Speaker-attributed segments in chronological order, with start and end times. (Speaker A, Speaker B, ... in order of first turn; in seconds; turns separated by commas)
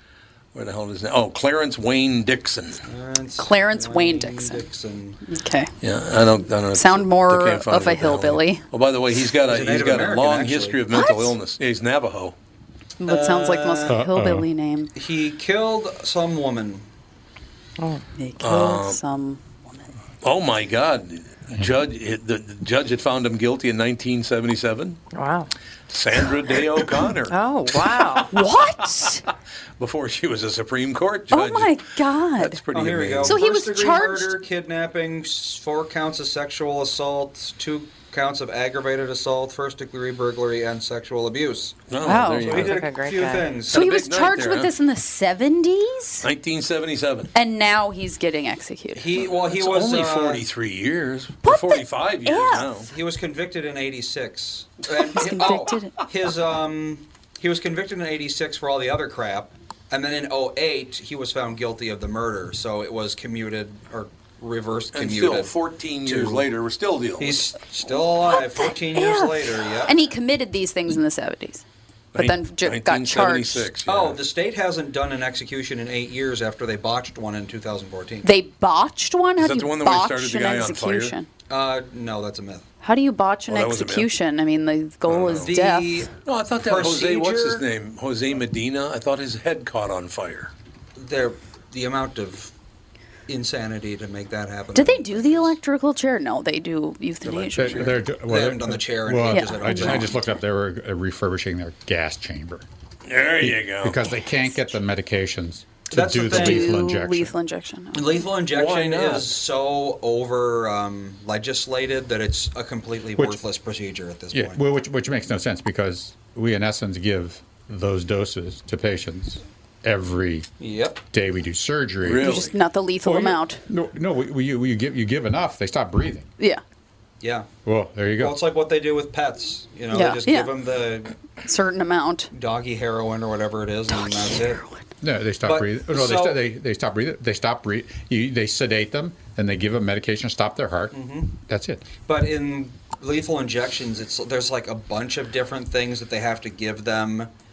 Speaker A: 0.5-2.8, Speaker B: 2.9-5.2, Speaker C: 3.4-4.6, Speaker C: 5.2-5.7, Speaker A: 5.8-12.3, Speaker C: 6.7-8.6, Speaker B: 9.4-10.8, Speaker C: 10.9-11.3, Speaker C: 13.0-14.9, Speaker B: 13.0-14.0, Speaker D: 13.9-14.5, Speaker B: 14.9-16.9, Speaker C: 18.1-19.9, Speaker A: 18.4-19.0, Speaker A: 20.2-25.0, Speaker E: 25.1-25.5, Speaker A: 25.9-27.4, Speaker E: 27.3-28.3, Speaker C: 28.3-29.2, Speaker A: 29.8-31.9, Speaker C: 31.3-32.6, Speaker A: 32.4-33.4, Speaker B: 32.7-41.8, Speaker C: 33.2-34.4, Speaker A: 41.9-42.8, Speaker C: 42.0-42.6, Speaker B: 42.4-43.8, Speaker E: 42.5-43.5, Speaker A: 43.7-44.7, Speaker C: 43.7-46.2, Speaker A: 46.2-47.3, Speaker C: 47.3-49.1, Speaker B: 49.0-50.4, Speaker A: 49.2-52.9, Speaker C: 51.4-52.8, Speaker B: 52.9-65.5, Speaker C: 55.1-56.0, Speaker A: 64.9-67.4, Speaker B: 66.0-66.5, Speaker B: 67.2-70.0, Speaker C: 68.3-71.6, Speaker C: 72.1-73.7, Speaker A: 72.1-74.2, Speaker B: 73.8-78.3, Speaker C: 78.2-81.3, Speaker A: 79.4-81.1, Speaker B: 81.5-82.7, Speaker C: 82.8-86.1, Speaker A: 83.5-84.1, Speaker A: 85.1-85.5, Speaker B: 85.3-87.6, Speaker A: 86.2-90.5, Speaker B: 91.0-92.5, Speaker B: 93.3-95.5, Speaker C: 94.7-98.0, Speaker A: 97.2-98.0, Speaker D: 97.6-102.6, Speaker B: 98.2-100.2, Speaker C: 99.3-100.2, Speaker A: 103.0-104.0, Speaker D: 103.4-107.3, Speaker B: 105.9-106.8, Speaker C: 106.2-108.2, Speaker B: 107.9-114.6, Speaker A: 108.5-109.4, Speaker D: 114.3-120.5, Speaker B: 120.6-121.0, Speaker D: 121.1-122.4, Speaker A: 122.0-122.5, Speaker C: 122.2-123.6, Speaker D: 123.0-126.3, Speaker B: 127.2-127.5, Speaker D: 127.7-128.4, Speaker B: 128.2-131.1, Speaker C: 129.9-130.5, Speaker C: 131.4-132.3, Speaker B: 132.3-134.6, Speaker C: 133.9-134.8, Speaker D: 135.0-141.8, Speaker B: 135.4-136.4, Speaker B: 140.9-141.3, Speaker B: 142.1-147.3